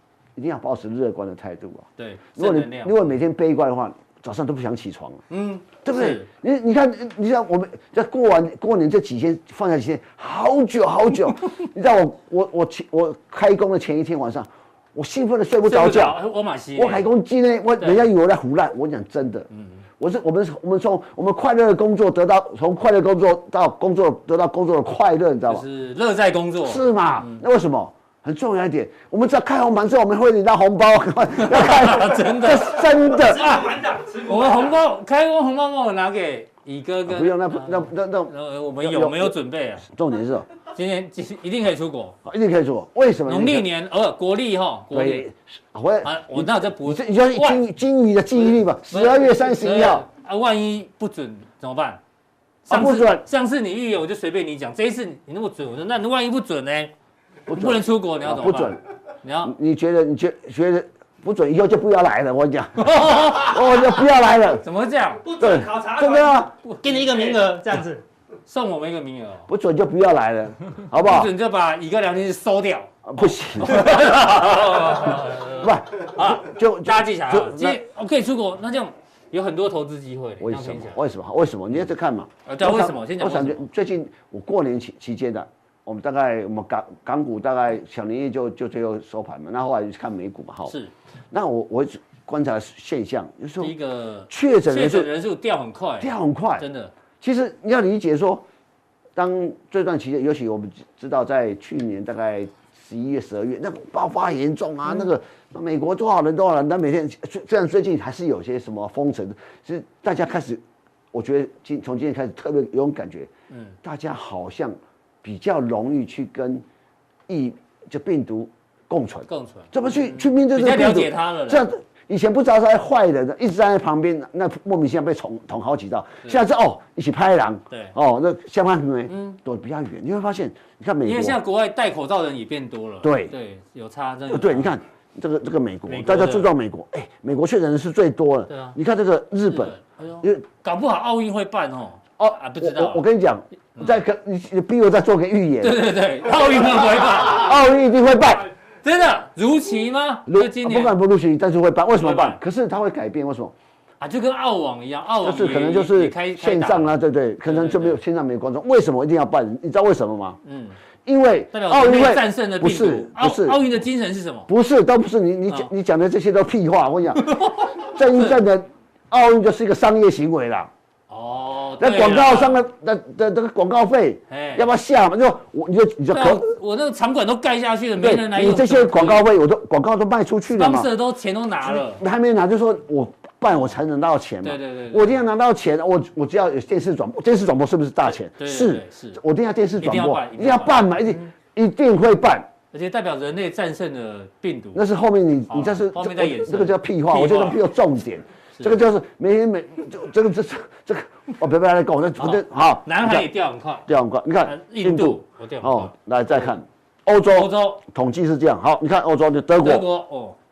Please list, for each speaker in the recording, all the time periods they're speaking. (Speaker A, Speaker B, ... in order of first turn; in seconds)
Speaker A: 0.3-5.2, 5.8-16.2, 16.8-19.5, 20.0-25.6, 26.6-33.7, 37.0-40.5, 42.2-43.7, 44.9-50.0, 52.7-53.2, 57.5-58.8, 59.4-64.6, 65.4-66.5, 69.5-71.3, 73.0-77.8, 80.4-90.8, 91.3-93.8, 94.3-95.1, 96.0-96.7, 97.2-98.4, 99.2-110.6, 111.1-113.3, 113.8-116.6, 117.3-131.4, 133.0-133.3, 134.3-140.4, 142.2-145.8, 147.2-148.5, 150.3-153.5, 155.2-160.4, 161.1-163.7, 164.5-170.7, 171.8-176.4, 178.0-180.9, 181.6-192.5, 194.7-203.3, 203.8-209.9
Speaker B: 2.0-3.0, 5.3-6.3, 15.6-17.1, 17.8-18.1, 19.5-19.8, 25.5-27.4, 31.3-39.9, 40.7-42.2, 43.2-45.2, 46.0-47.6, 48.9-52.0, 52.6-56.9, 57.5-59.5, 62.8-65.6, 66.6-67.4, 68.5-69.5, 70.9-81.0, 82.5-83.6, 90.7-90.9, 93.6-96.9, 113.5-113.8, 119.3-121.7, 129.1-129.4, 131.0-134.7, 135.9-136.5, 138.5-138.8, 139.5-143.0, 145.6-147.6, 148.8-150.9, 152.0-152.4, 154.0-156.9, 157.4-158.0, 160.4-160.8, 161.5-164.5, 167.2-168.4, 171.1-172.6, 174.3-174.7, 176.1-179.2, 180.5-182.0, 184.4-185.2, 188.1-189.2, 189.8-191.3, 192.7-194.8, 195.5-197.6, 202.2-203.9, 204.4-206.5, 207.3-207.8, 209.6-210.3
Speaker C: 33.3-34.6, 65.2-68.0